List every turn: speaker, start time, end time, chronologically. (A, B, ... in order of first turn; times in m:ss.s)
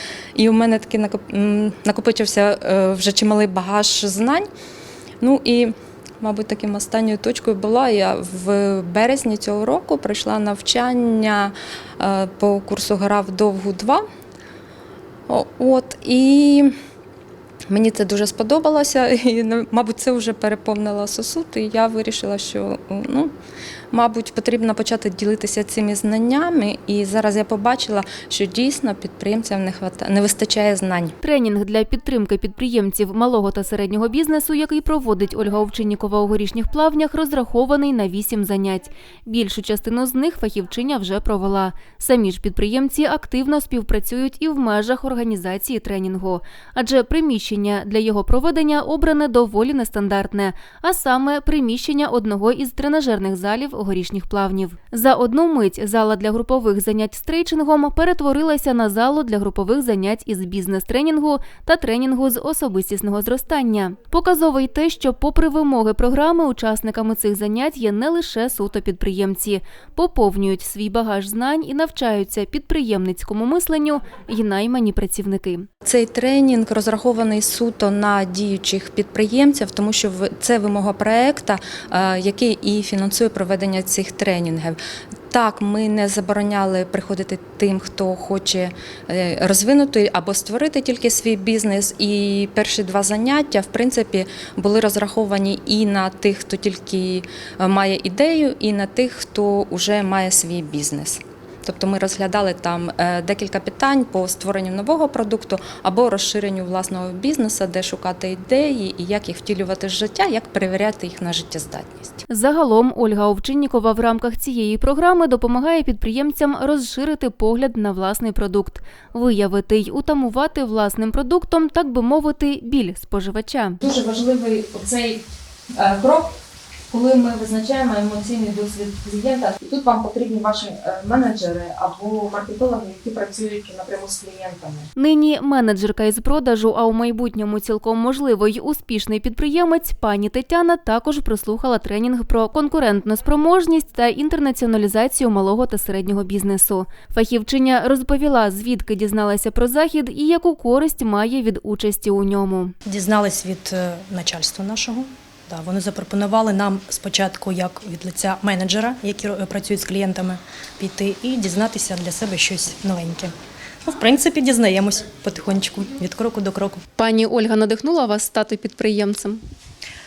0:00.4-0:04.5 A
0:05.2-0:14.0 A
0:15.3-0:16.7 A
0:17.7-0:23.3 A
0:23.9-0:31.1 A
0:31.2-1:15.7 B
1:15.8-1:24.8 A
1:25.3-1:52.2 A
1:52.3-2:03.8 B
2:03.8-2:05.2 A
2:05.8-2:06.3 A
2:06.9-2:14.9 A
2:15.0-2:32.7 B
2:32.8-2:43.3 C
2:43.8-2:46.8 C
2:47.0-2:49.4 B